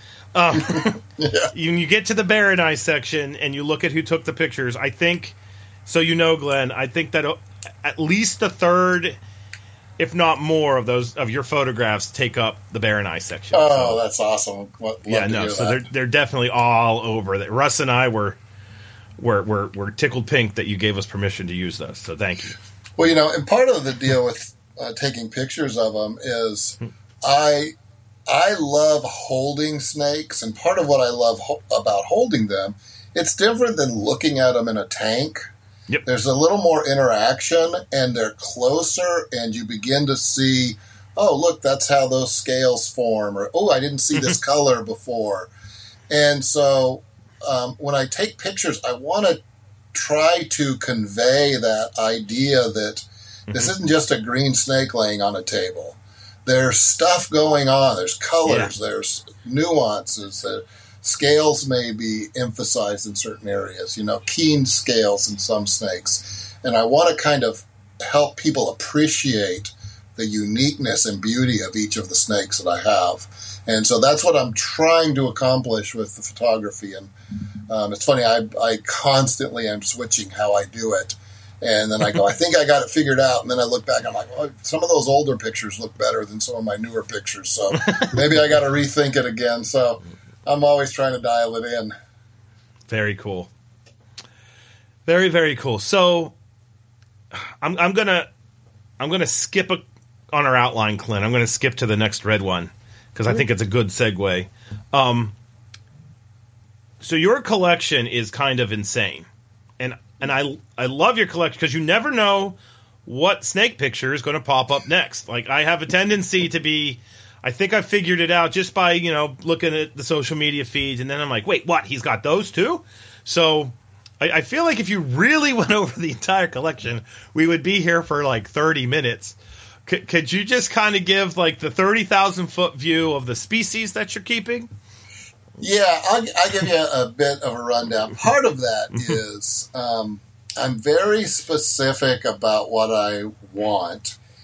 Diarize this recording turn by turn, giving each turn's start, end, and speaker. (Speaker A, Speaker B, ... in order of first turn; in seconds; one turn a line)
Speaker A: 0.3-1.0
Speaker B: 0.6-1.5
Speaker A: 1.5-9.2
Speaker A: 10.0-14.0
Speaker B: 13.5-15.8
Speaker A: 15.1-18.4
Speaker A: 19.2-22.6
Speaker B: 23.0-27.7
Speaker B: 28.3-35.5
Speaker B: 36.0-45.5
Speaker B: 46.1-49.4
Speaker B: 49.9-77.1
Speaker A: 58.5-58.7
Speaker B: 77.7-91.9
Speaker A: 87.7-88.2
Speaker A: 92.9-93.5
Speaker A: 95.0-96.3
Speaker A: 97.3-98.3
Speaker A: 99.0-105.3
Speaker A: 107.0-109.3
Speaker A: 109.8-134.7
Speaker B: 135.6-144.2